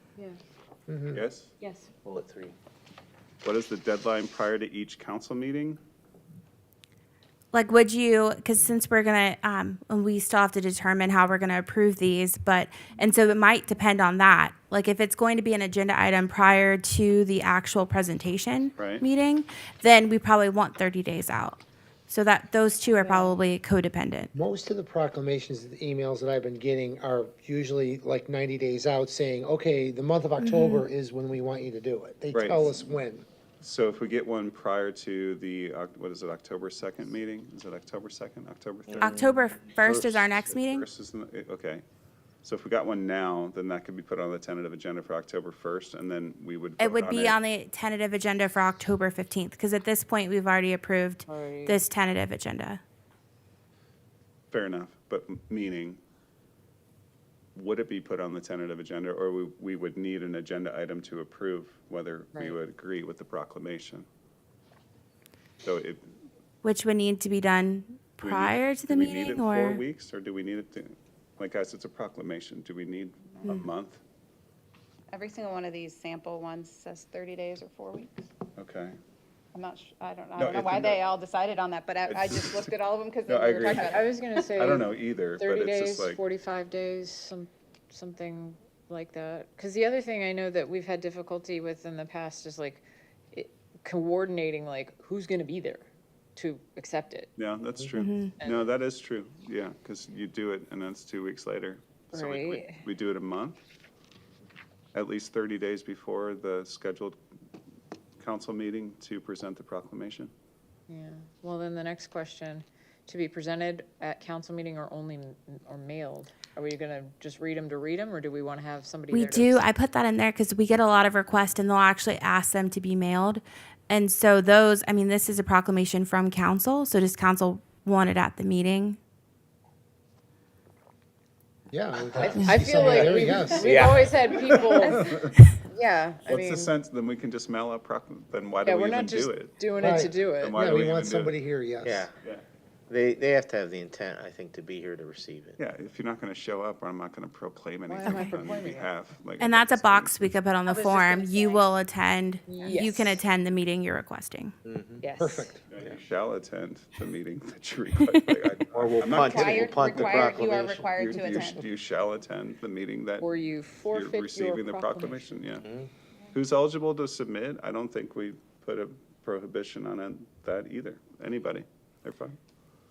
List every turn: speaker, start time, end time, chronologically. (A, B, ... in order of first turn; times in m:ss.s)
0:00.9-0:01.2 A
0:01.1-0:01.5 B
0:01.6-0:01.9 C
0:02.0-0:02.6 D
0:03.4-0:05.8 B
0:07.5-0:24.3 E
0:18.8-0:19.0 B
0:24.4-0:33.3 A
0:30.4-0:30.9 E
0:32.3-0:32.8 B
0:33.6-0:39.2 B
0:38.9-0:39.4 D
0:39.0-0:40.9 E
0:39.8-0:41.8 B
0:42.4-0:47.4 B
0:46.8-0:52.8 E
0:51.3-0:51.8 C
0:54.5-0:56.0 B
0:57.6-1:04.1 B
1:05.6-1:06.0 B
1:06.6-1:09.8 E
1:08.2-1:14.0 B
1:15.1-1:18.2 F
1:18.6-1:19.0 B
1:19.5-1:24.1 F
1:20.4-1:21.0 B
1:22.1-1:22.7 B
1:23.3-1:26.2 B
1:23.7-1:35.8 C
1:36.4-1:37.3 C
1:37.4-1:43.6 B
1:37.9-1:38.4 E
1:38.4-1:38.7 C
1:42.1-1:42.8 C
1:44.9-1:47.2 B
1:48.2-1:50.3 B
1:50.9-1:59.6 C
1:59.1-2:09.0 E
2:11.7-2:13.9 A
2:12.2-2:14.1 D
2:12.2-2:16.7 C
2:14.3-2:15.4 B
2:16.3-2:19.6 B
2:18.6-2:20.6 C
2:19.8-2:22.1 A
2:20.1-2:21.4 B
2:21.8-2:22.1 D
2:22.9-2:25.6 D
2:25.6-2:30.3 B
2:27.9-2:28.9 C
2:28.0-2:28.4 E
2:29.4-2:34.5 E
2:30.6-2:31.8 F
2:32.5-2:33.2 C
2:32.5-2:32.8 F
2:34.6-2:35.0 D
2:35.0-2:35.5 C
2:35.2-2:35.6 A
2:35.7-2:45.7 B
2:38.7-2:41.5 D
2:39.1-2:41.6 F
2:43.2-2:45.3 C
2:45.6-2:45.9 D
2:46.3-2:52.4 B